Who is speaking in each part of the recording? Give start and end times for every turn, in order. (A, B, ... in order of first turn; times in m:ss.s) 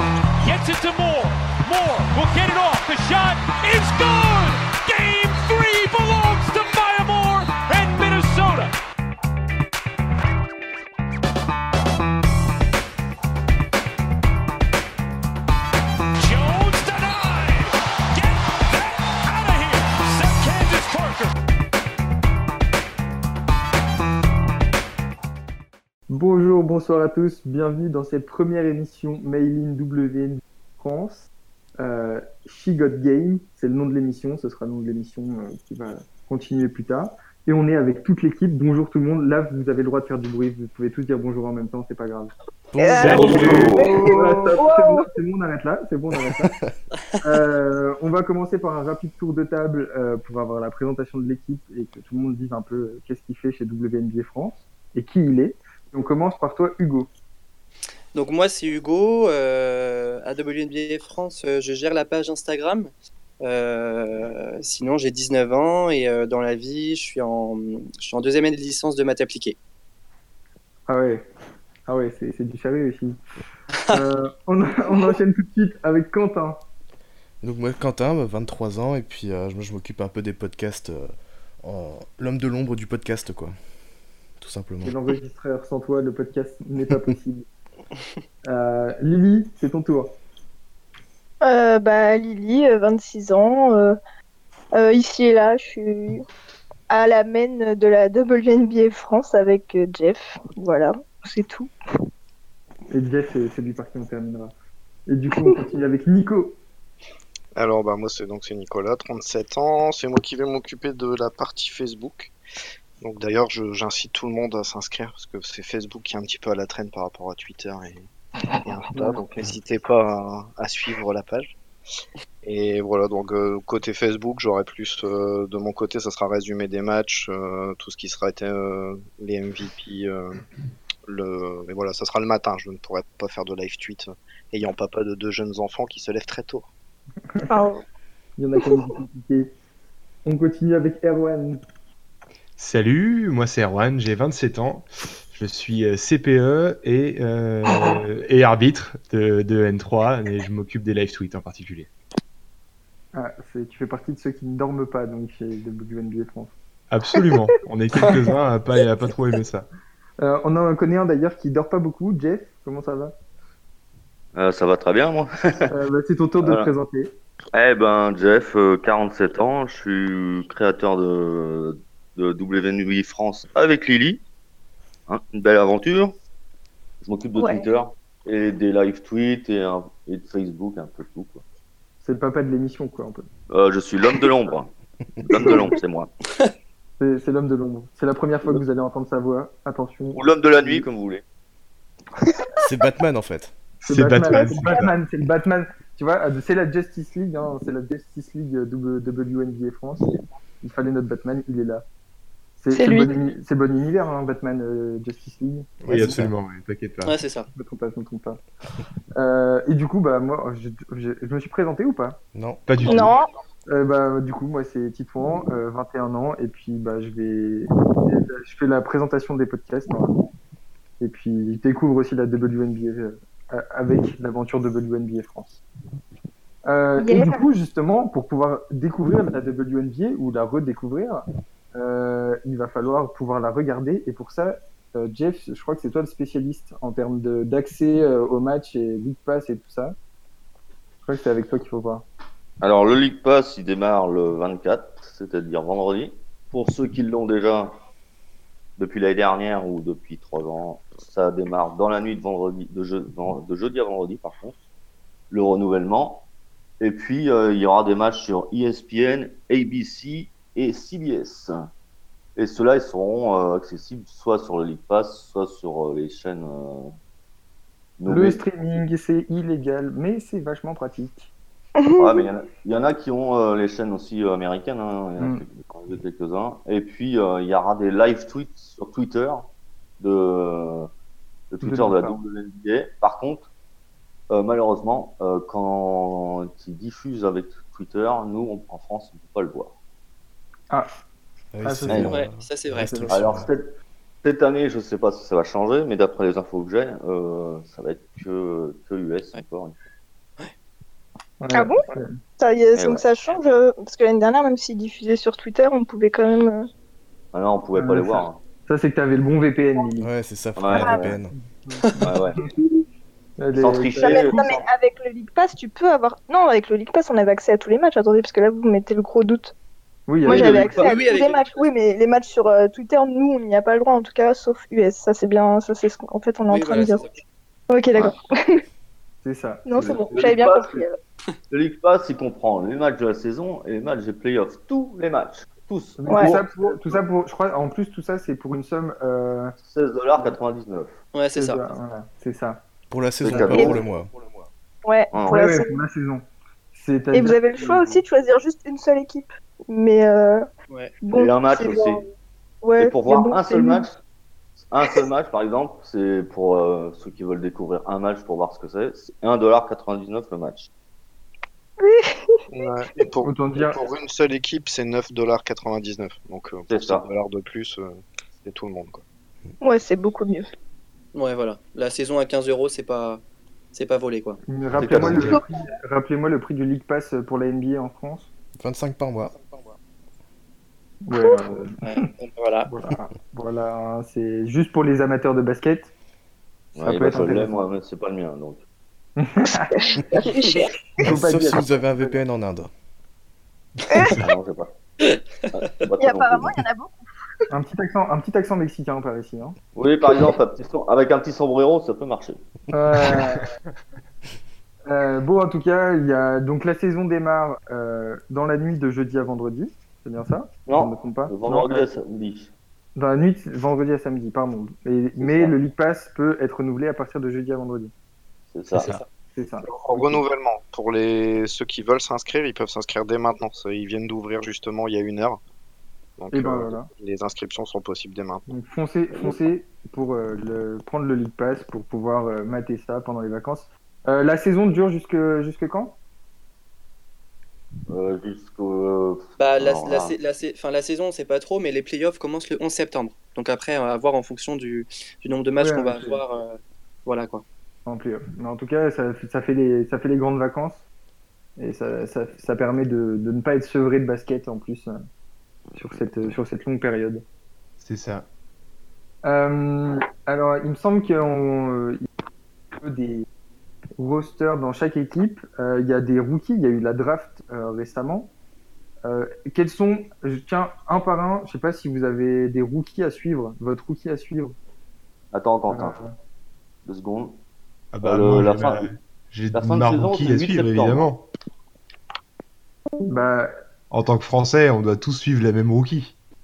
0:00.4-0:08.8 A
0:16.2-0:21.3 A
0:26.1-0:42.3 B
0:42.7-0:43.6 C
0:42.8-0:45.1 D
0:43.0-0:43.9 E
0:43.0-0:43.9 F
0:43.2-0:46.5 B
0:46.4-0:46.7 C
0:47.2-0:57.1 B
0:58.1-1:09.6 G
1:10.9-1:11.2 B
1:11.9-1:13.2 B
1:13.9-1:16.6 B
1:17.4-1:23.6 C
1:24.4-1:25.0 C
1:24.8-1:27.5 B
1:28.4-1:30.2 B
1:31.4-1:34.0 D
1:34.7-1:36.2 D
1:36.9-1:41.7 D
1:42.9-1:44.5 B
1:45.1-1:46.6 B
1:47.5-1:52.3 H
1:53.0-2:01.6 H
1:58.9-1:59.2 B
2:02.4-2:10.4 H
2:11.1-2:16.7 H
2:17.5-2:17.8 D
2:18.4-2:19.5 B
2:20.2-2:21.6 B
2:22.6-2:31.9 E
2:33.1-2:36.5 B
2:36.9-2:39.7 E
2:37.2-2:37.4 D
2:40.2-2:43.1 B
2:44.3-2:45.7 F
2:45.7-2:47.1 B
2:46.4-2:46.7 F
2:47.5-2:54.2 F
2:55.1-2:56.1 F
2:57.0-3:01.4 F
2:57.4-2:57.6 D
3:02.0-3:03.3 B
3:03.5-3:04.7 F
3:05.2-3:06.1 F
3:05.3-3:05.7 D
3:07.0-3:10.8 B
3:10.1-3:11.2 F
3:12.6-3:13.5 C
3:13.8-3:21.8 B
3:13.9-3:14.9 E
3:14.4-3:14.8 D
3:22.6-3:26.2 B
3:22.7-3:23.1 D
3:25.8-3:26.3 C
3:25.9-3:27.2 E
3:27.0-3:27.5 G
3:27.5-3:28.4 B
3:29.1-3:32.2 B
3:32.3-3:32.8 C
3:32.7-3:33.1 E
3:32.8-3:33.3 D
3:33.7-3:40.2 B
3:41.0-3:45.6 B
3:46.6-4:00.0 B
3:47.0-3:47.4 D
4:01.0-4:02.0 B
4:02.6-4:07.8 F
4:08.8-4:14.6 F
4:15.3-4:16.3 F
4:16.8-4:21.5 F
4:22.4-4:26.9 F
4:28.0-4:28.8 F
4:28.1-4:31.3 B
4:31.8-4:32.2 D
4:32.0-4:39.5 F
4:35.2-4:35.4 B
4:40.0-4:40.9 F
4:41.5-4:43.5 F
4:41.6-4:42.2 B
4:44.3-4:49.7 F
4:51.5-4:53.5 C
4:51.6-4:52.0 B
4:51.9-4:52.2 F
4:52.1-4:52.9 G
4:52.9-4:53.4 B
4:53.1-4:59.8 F
5:01.4-5:02.2 B
5:01.5-5:01.8 D
5:02.4-5:06.7 D
5:02.7-5:03.1 F
5:07.3-5:08.4 F
5:07.8-5:10.1 B
5:10.0-5:11.3 C
5:10.6-5:11.2 F
5:10.7-5:11.0 D
5:11.3-5:12.1 B
5:12.0-5:12.4 F
5:13.4-5:14.5 B
5:13.6-5:14.6 F
5:14.0-5:19.5 D
5:20.1-5:20.6 B
5:20.2-5:21.0 F
5:20.2-5:27.0 D
5:20.6-5:21.7 G
5:26.5-5:27.2 G
5:27.7-5:28.6 D
5:29.2-5:29.6 B
5:29.6-5:30.9 D
5:29.7-5:30.8 F
5:31.5-5:37.0 F
5:36.0-5:39.6 B
5:36.1-5:36.3 D
5:39.6-5:41.0 F
5:41.1-5:41.6 G
5:41.3-5:42.6 B
5:42.9-5:44.1 C
5:43.2-5:43.8 F
5:43.5-5:43.8 D
5:44.8-5:45.8 D
5:45.1-5:45.4 F
5:45.3-5:48.0 B
5:47.1-5:50.4 D
5:50.7-5:50.9 G
5:51.0-5:52.0 D
5:51.1-5:52.0 F
5:52.6-5:53.8 D
5:52.8-5:54.0 F
5:54.7-6:00.7 F
6:01.8-6:02.4 D
6:02.5-6:09.0 H
6:03.2-6:03.8 B
6:06.7-6:07.0 F
6:09.6-6:10.5 D
6:11.1-6:13.2 G
6:13.7-6:14.4 G
6:14.4-6:18.3 B
6:14.8-6:15.4 F
6:18.6-6:19.4 C
6:21.0-6:22.1 B
6:21.8-6:22.7 G
6:22.7-6:25.9 B
6:26.7-6:28.6 F
6:26.8-6:27.6 B
6:29.2-6:29.8 B
6:29.7-6:30.7 D
6:31.0-6:32.2 B
6:31.0-6:32.7 C
6:33.9-6:34.3 E
6:33.9-6:34.2 D
6:34.2-6:34.7 F
6:35.5-6:36.5 F
6:36.0-6:36.9 D
6:37.5-6:39.6 B
6:39.7-6:42.4 F
6:42.7-6:43.5 B
6:43.0-6:43.4 E
6:44.9-6:51.9 B
6:50.7-6:52.5 F
6:53.0-6:57.9 B
6:55.2-6:55.6 F
6:58.5-6:58.9 F
6:59.3-7:00.0 B
6:59.7-7:05.4 H
7:06.2-7:08.4 H
7:06.3-7:06.9 B
7:08.5-7:16.0 B
7:09.1-7:09.4 F
7:17.9-7:20.2 F
7:19.4-7:27.4 G
7:25.6-7:26.2 B
7:27.8-7:30.8 B
7:31.6-7:35.0 B
7:35.7-7:37.2 B
7:37.8-7:38.2 E
7:39.2-7:42.0 B
7:42.8-7:43.2 B
7:44.0-7:48.3 B
7:49.0-7:54.6 B
7:55.3-7:56.0 F
7:55.7-7:56.1 B
7:56.8-7:57.4 F
7:57.9-8:01.3 E
7:58.0-7:58.9 F
7:59.5-8:01.1 F
8:03.1-8:03.5 B
8:03.9-8:06.2 E